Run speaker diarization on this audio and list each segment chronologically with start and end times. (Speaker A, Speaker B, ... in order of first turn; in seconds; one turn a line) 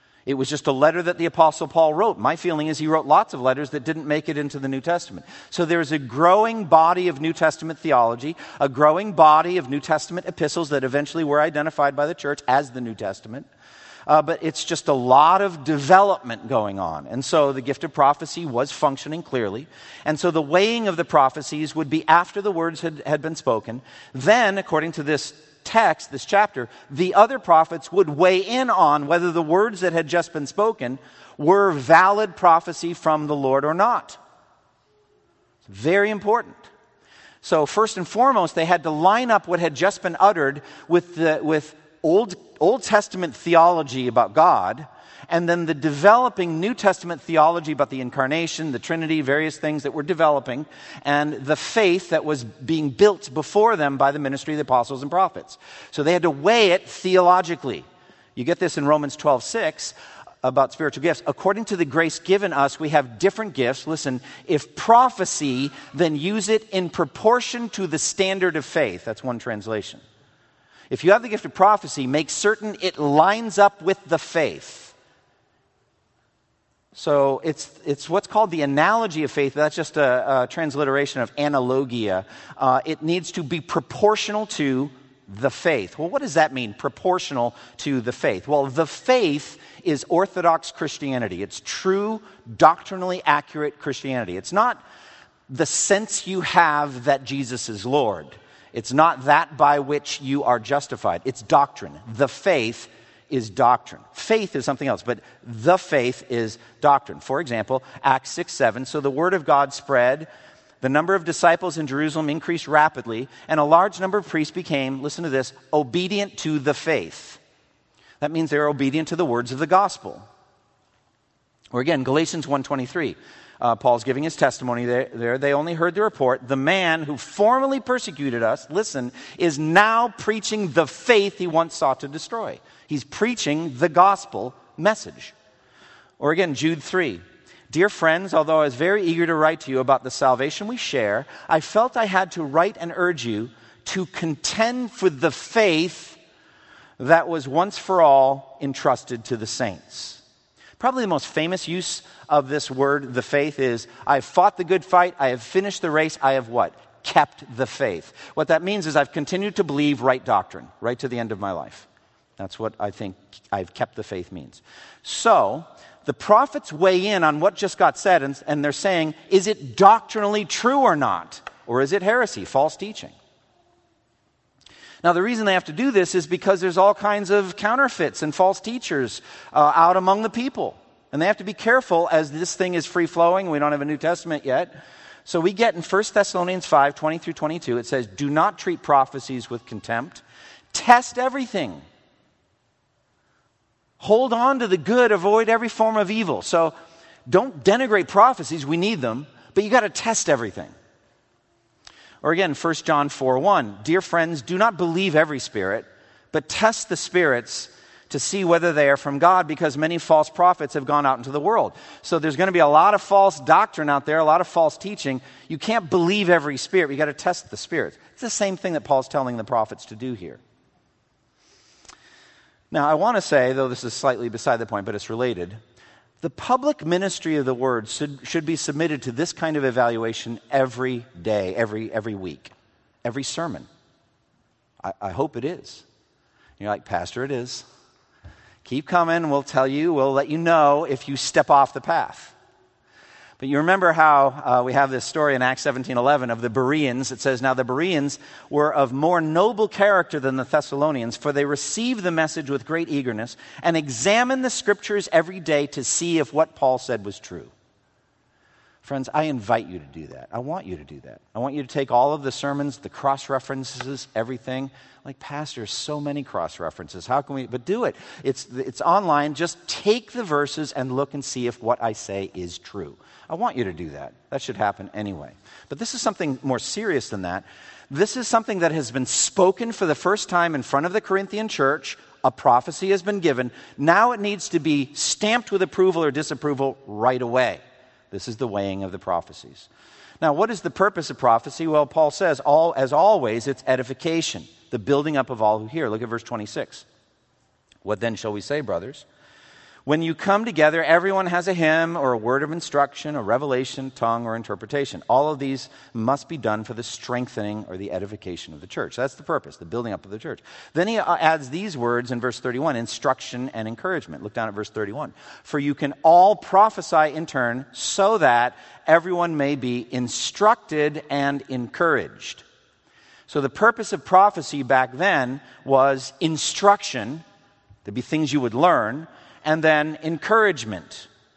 Speaker A: 0.3-13.5
Speaker A: 14.1-34.2
Speaker A: 35.7-36.7
Speaker A: 37.4-57.9
Speaker A: 58.4-70.0
Speaker A: 70.9-74.9
Speaker A: 76.9-94.8
Speaker A: 95.5-110.3
Speaker A: 110.8-117.4
Speaker A: 118.2-120.3
Speaker A: 121.7-135.3
Speaker A: 136.2-146.2
Speaker A: 147.0-150.2
Speaker A: 150.8-173.1
Speaker A: 175.0-184.7
Speaker A: 185.2-191.8
Speaker A: 194.0-196.7
Speaker A: 197.3-200.7
Speaker A: 202.2-220.4
Speaker A: 222.7-225.6
Speaker A: 226.2-232.5
Speaker A: 233.0-233.7
Speaker A: 234.8-235.8
Speaker A: 236.6-237.6
Speaker A: 238.6-242.3
Speaker A: 243.4-257.5
Speaker A: 258.8-289.7
Speaker A: 290.2-296.9
Speaker A: 297.8-299.1
Speaker A: 299.9-322.4
Speaker A: 323.3-327.2
Speaker A: 327.9-331.1